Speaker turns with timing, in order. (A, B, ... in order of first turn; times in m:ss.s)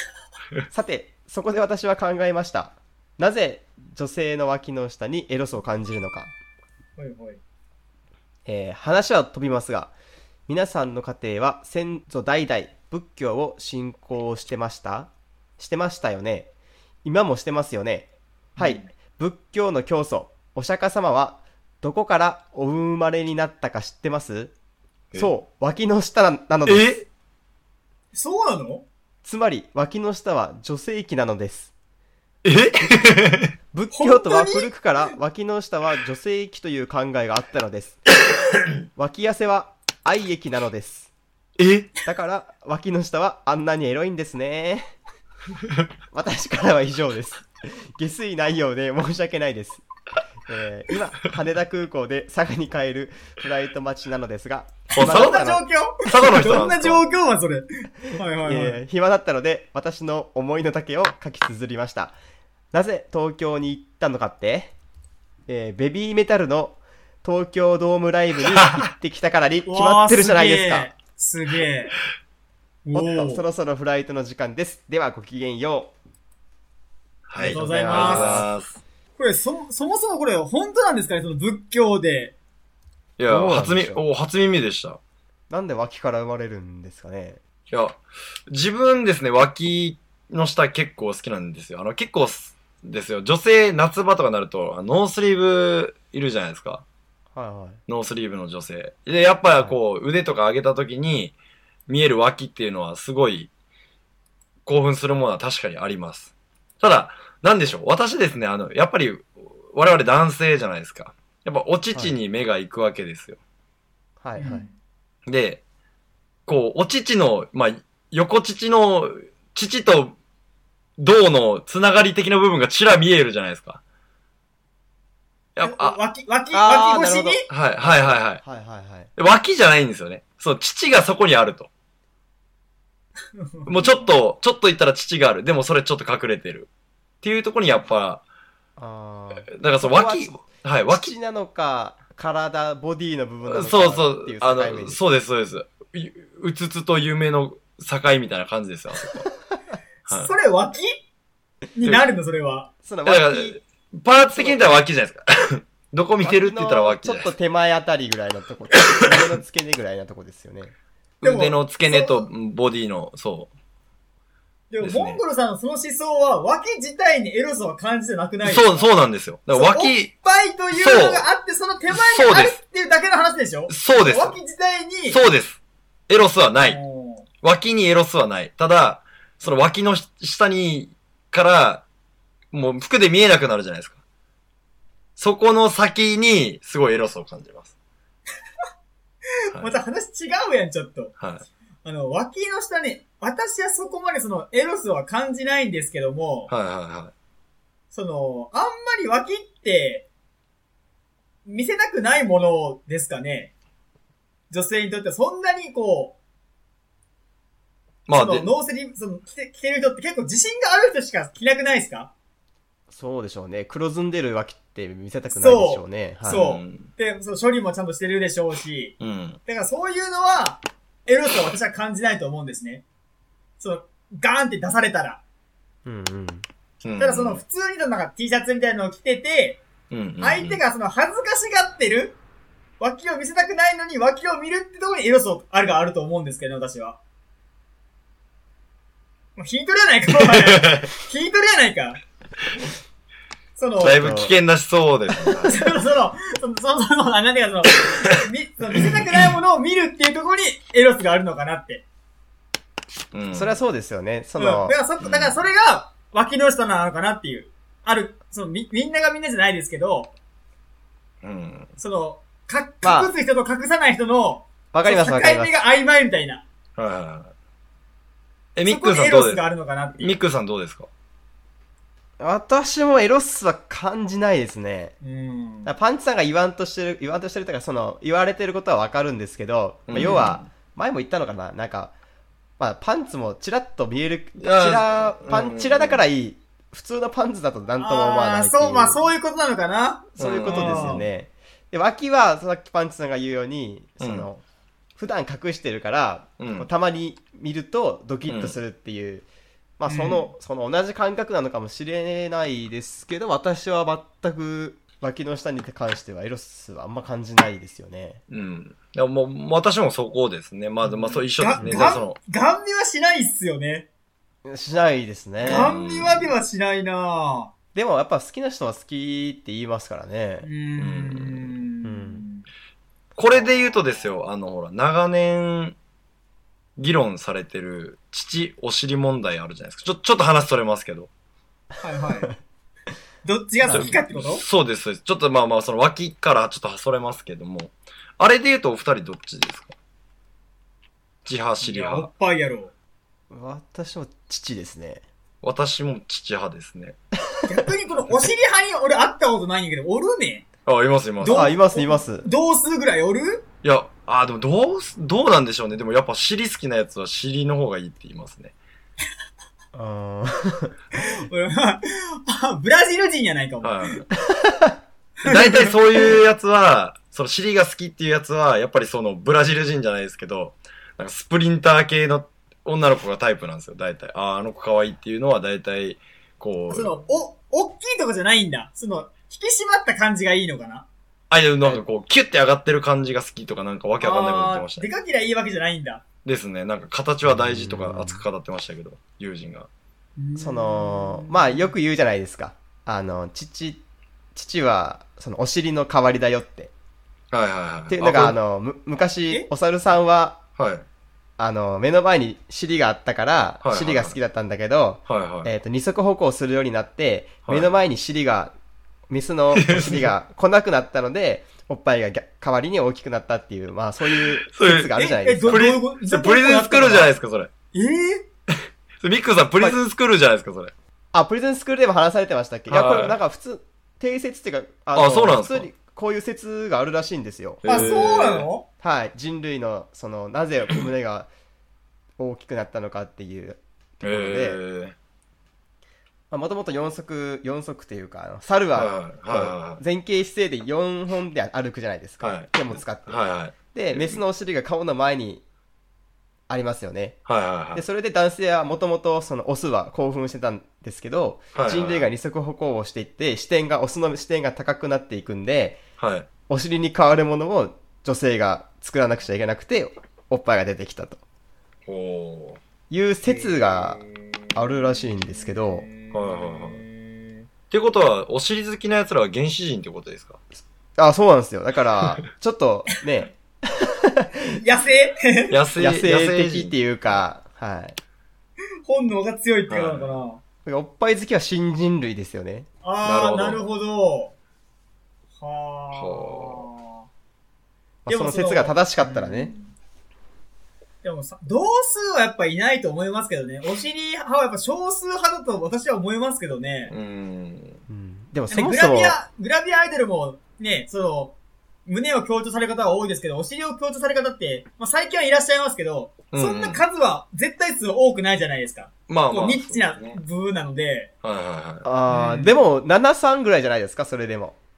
0:00.7-0:06.3 A
0:07.0-0:07.4 B
0:08.4-0:09.9 A
0:10.5-0:16.5 A
0:17.0-0:24.5 A
0:18.6-0:18.9 B
0:25.1-0:26.9 A
0:26.6-0:27.0 C
0:28.1-0:28.8 B
0:29.2-0:31.7 A
0:32.4-0:33.5 C
0:33.7-0:38.0 A
0:33.9-0:34.7 B
0:39.0-0:41.1 A
0:41.6-0:41.9 C
0:42.0-0:44.9 A
0:46.1-0:49.8 A
0:50.5-0:55.6 A
0:54.9-0:58.8 B
0:54.9-0:55.5 C
0:56.0-0:57.0 C
0:58.4-1:02.1 A
1:02.7-1:04.7 A
1:05.5-1:10.9 A
1:09.6-1:12.0 B
1:12.8-1:13.4 B
1:12.9-1:15.9 A
1:17.3-1:18.8 C
1:17.4-1:18.5 A
1:17.5-1:18.4 B
1:19.2-1:22.3 B
1:23.2-1:25.0 C
1:23.3-1:24.0 A
1:25.5-1:27.4 A
1:27.7-1:36.8 C
1:37.3-1:37.8 A
1:37.9-1:41.3 C
1:41.9-1:43.5 C
1:44.6-1:53.4 C
1:54.2-1:54.6 A
1:54.4-1:54.7 B
1:55.3-1:55.6 C
1:56.5-2:00.2 C
2:01.0-2:03.8 C
2:05.6-2:06.0 C
2:05.6-2:07.4 B
2:06.5-2:09.1 A
2:07.5-2:08.4 C
2:09.2-2:11.7 C
2:13.4-2:14.1 B
2:13.7-2:16.7 C
2:17.2-2:18.2 C
2:18.8-2:20.3 A
2:19.5-2:21.1 C
2:20.9-2:25.0 A
2:23.5-2:29.2 C
2:30.1-2:31.0 B
2:31.8-2:32.7 B
2:32.8-2:33.6 A
2:33.0-2:37.3 C
2:34.2-2:34.8 A
2:36.2-2:40.7 A
2:38.8-2:39.1 C
2:41.2-2:43.5 C
2:41.2-2:42.3 B
2:44.7-2:48.9 B
2:44.8-2:45.2 C
2:48.4-2:50.1 C
2:49.5-2:55.2 B
2:50.7-2:51.2 C
2:51.9-2:52.6 C
2:53.7-2:54.4 C
2:55.1-2:56.8 C
2:56.6-2:57.3 B
2:57.4-3:01.8 C
3:02.5-3:04.0 C
3:05.2-3:07.7 C
3:09.5-3:11.1 B
3:11.2-3:11.4 C
3:11.8-3:16.5 B
3:16.5-3:17.1 C
3:17.9-3:20.1 B
3:21.4-3:23.5 B
3:24.5-3:26.2 B
3:28.1-3:28.5 C
3:28.1-3:32.1 B
3:32.9-3:36.4 A
3:35.3-3:38.9 B
3:36.2-3:36.9 C
3:39.0-3:39.4 C
3:39.5-3:42.8 B
3:43.6-3:45.2 B
3:45.8-3:46.4 A
3:46.8-3:47.4 C
3:47.0-3:49.6 B
3:49.9-3:50.6 C
3:50.2-3:52.2 B
3:52.8-3:57.0 B
3:59.4-4:02.0 B
4:00.4-4:00.9 C
4:03.6-4:04.0 B
4:03.8-4:05.6 C
4:03.9-4:04.3 A
4:05.5-4:11.8 B
4:13.1-4:13.6 C
4:13.3-4:14.7 A
4:14.4-4:20.1 B
4:15.0-4:15.4 C
4:21.2-4:21.7 C
4:21.8-4:26.4 B
4:22.8-4:23.1 A
4:24.7-4:25.6 A
4:26.8-4:27.3 C
4:28.5-4:29.4 C
4:28.6-4:30.2 B
4:30.0-4:30.9 C
4:32.2-4:34.9 A
4:35.0-4:35.7 B
4:35.6-4:41.9 A
4:39.9-4:40.4 C
4:42.6-4:49.0 A
4:44.4-4:46.0 C
4:47.8-4:51.0 B
4:50.2-4:54.4 A
4:50.2-4:51.0 C
4:54.0-4:54.3 C
4:55.0-4:59.2 A
4:56.4-4:56.7 C
4:58.3-4:58.6 C
4:59.8-5:08.2 A
4:59.9-5:00.3 B
5:08.3-5:12.2 C
5:10.8-5:13.9 B
5:11.6-5:11.9 A
5:14.4-5:15.7 A
5:15.4-5:16.3 C
5:15.4-5:17.5 B
5:17.7-5:20.5 A
5:20.4-5:22.4 B
5:20.8-5:21.6 C
5:21.8-5:22.2 A
5:23.2-5:25.8 C
5:26.8-5:31.1 C
5:31.8-5:32.3 B
5:33.2-5:34.4 B
5:33.7-5:39.7 C
5:41.2-5:42.1 C
5:41.6-5:42.7 B
5:43.3-5:45.0 A
5:45.4-5:47.0 C
5:47.4-5:50.4 B
5:50.6-5:51.5 C
5:51.2-5:53.4 B
5:51.2-5:52.3 A
5:53.6-5:58.5 C
5:59.7-6:00.8 A
6:00.9-6:04.0 B
6:03.6-6:04.0 C
6:04.3-6:04.8 A
6:05.2-6:05.8 B
6:05.2-6:16.9 C
6:16.7-6:20.9 B
6:21.3-6:24.8 C
6:24.0-6:26.0 B
6:26.2-6:29.7 C
6:27.2-6:28.2 A
6:30.2-6:31.7 B
6:30.4-6:33.8 A
6:34.3-6:36.7 A
6:37.3-6:38.4 C
6:37.9-6:40.4 A
6:40.6-6:40.8 C
6:41.4-6:48.5 A
6:43.6-6:44.2 C
6:45.1-6:45.5 C
6:49.1-6:55.7 A
6:49.5-6:50.1 C
6:54.2-6:54.9 C
6:54.9-6:57.1 B
6:55.5-6:57.5 C
6:57.7-6:58.2 B
6:59.0-7:00.7 C
7:01.1-7:07.9 A
7:02.7-7:03.2 C
7:04.9-7:05.7 C
7:07.6-7:08.5 C
7:07.7-7:08.6 B
7:08.8-7:11.3 A
7:12.2-7:14.6 A
7:14.0-7:14.9 C
7:16.3-7:23.2 A
7:18.7-7:19.8 C
7:22.2-7:24.2 C
7:23.7-7:25.4 A
7:26.5-7:27.2 A
7:27.2-7:27.8 C
7:27.7-7:35.8 A
7:31.5-7:32.1 C
7:36.0-7:36.3 C
7:36.5-7:41.2 A
7:41.9-7:42.6 C
7:42.9-7:44.0 A
7:44.5-7:45.9 A
7:45.9-7:46.9 B
7:46.1-7:46.8 C
7:47.7-7:50.4 C
7:51.0-7:54.6 A
7:54.6-7:55.5 B
7:55.5-7:56.8 C
7:55.8-7:58.0 A
7:58.8-8:00.4 B
7:59.7-8:00.2 C
8:00.6-8:02.7 A
8:02.8-8:04.3 B
8:03.0-8:03.6 C
8:05.4-8:07.1 B
8:05.9-8:06.7 C
8:08.0-8:09.5 A
8:08.1-8:09.7 B
8:11.0-8:16.9 B
8:16.9-8:17.8 C
8:17.9-8:19.2 A
8:18.5-8:31.1 B
8:26.3-8:26.8 C
8:29.1-8:30.2 C
8:31.2-8:31.9 C
8:31.8-8:34.6 A
8:32.1-8:32.6 B